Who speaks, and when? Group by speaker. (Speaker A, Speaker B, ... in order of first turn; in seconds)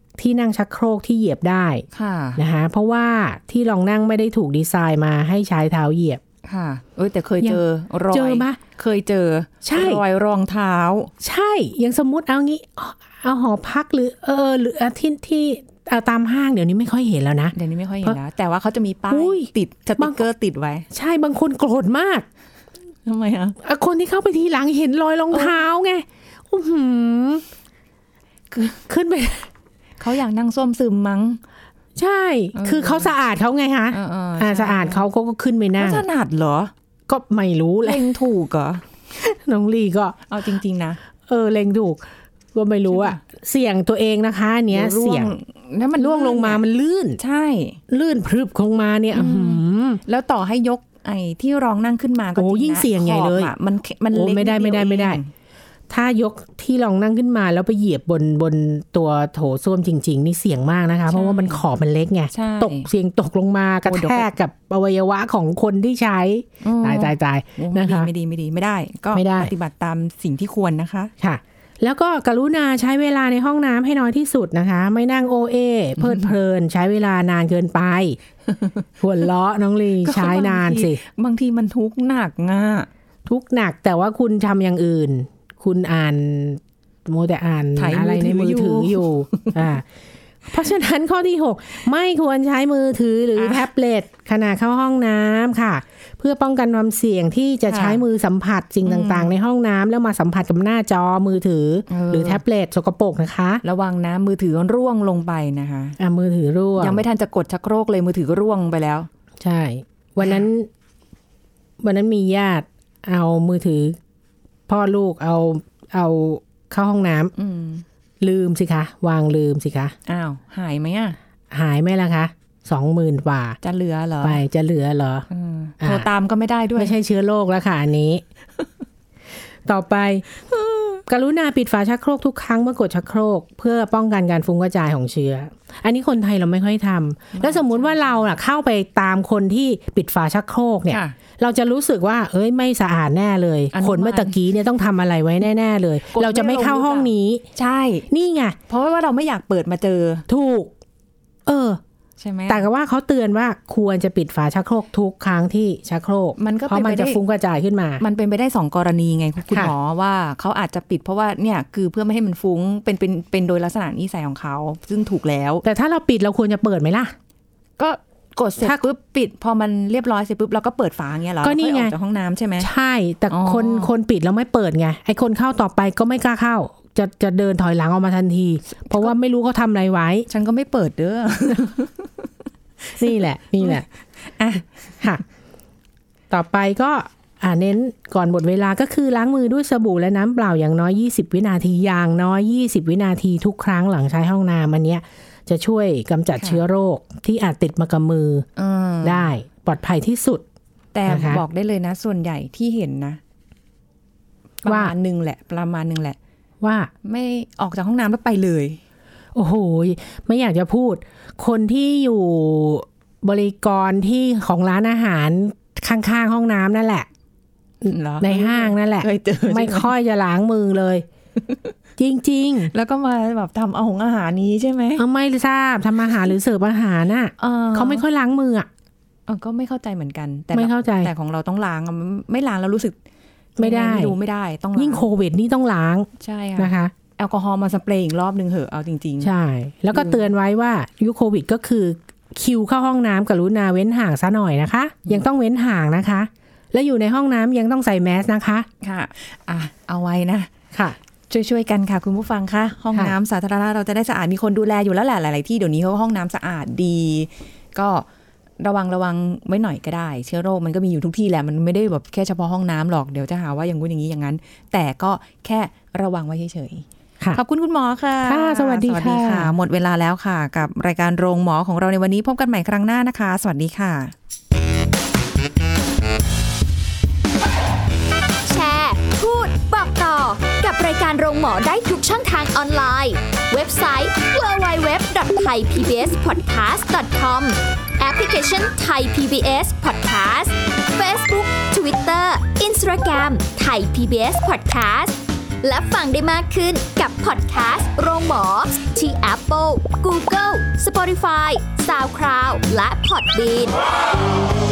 Speaker A: 0.2-1.8, 2.4-6.2, 7.4-8.6, 9.6-10.0, 11.2-18.2, 19.1-20.2, 20.9-22.2, 23.6-27.4, 28.5-29.5, 31.9-36.0, 37.1-38.1, 39.1-40.2, 41.3-45.3, 46.0-47.2, 47.9-50.0, 52.4-53.5, 54.1-55.2, 55.9-68.1, 69.1-69.5, 71.2-78.2, 79.0-81.0, 83.2-89.8, 90.5-103.6, 106.0-107.0, 109.4-110.7, 111.8-114.0, 114.7-117.3, 118.2-119.9, 121.5-123.6, 124.2-125.2, 125.8-126.1, 126.8-128.2, 129.7-130.2, 131.1-147.4, 148.1-148.6, 150.3-150.7, 151.4-151.8, 152.5-158.0, 165.6-167.1, 171.4-171.9, 172.6-180.3, 183.0-183.8, 186.3-198.5, 199.0-200.4, 201.1-201.4, 204.7-204.9, 206.6-206.9, 209.3-217.1, 217.8-221.1, 222.0-222.7, 225.0-228.7, 230.5-231.1, 233.6-234.2, 234.7-236.9, 239.2-248.7, 268.2-269.5
Speaker B: 1.9-2.4, 6.5-11.1, 17.5-20.9, 23.1-23.6, 25.3-25.6, 30.0-31.4, 32.5-33.1, 33.9-35.0, 35.8-36.7, 37.8-38.8, 40.3-41.0, 42.9-43.2, 44.7-46.6, 47.2-47.8, 49.1-55.3, 61.1-61.6, 62.3-62.9, 63.8-64.3, 66.6-71.1, 76.0-76.3, 80.0-82.9, 87.8-89.7, 93.4-93.6, 97.7-98.0, 98.8-99.3, 101.9-102.4, 103.6-106.0, 106.8-109.1, 117.3-117.8, 120.1-121.2, 123.6-124.4, 125.3-127.0, 130.6-131.0, 137.3-138.3, 140.9-141.1, 143.7-144.4, 146.1-148.1, 148.7-150.2, 152.2-152.7, 156.4-157.2, 158.0-165.6, 167.8-172.7, 173.3-173.9, 178.7-179.1, 180.3-182.1, 183.6-184.7, 196.4-196.6, 198.6-199.3, 200.9-203.2, 204.6-206.2, 207.0-208.8, 217.8-219.9, 222.7-225.0, 227.4-228.0, 229.3-233.0, 233.6-235.0, 236.2-239.3, 239.9-240.2, 248.8-250.5, 251.3-258.1, 258.6-274.1
Speaker C: 278.5-303.8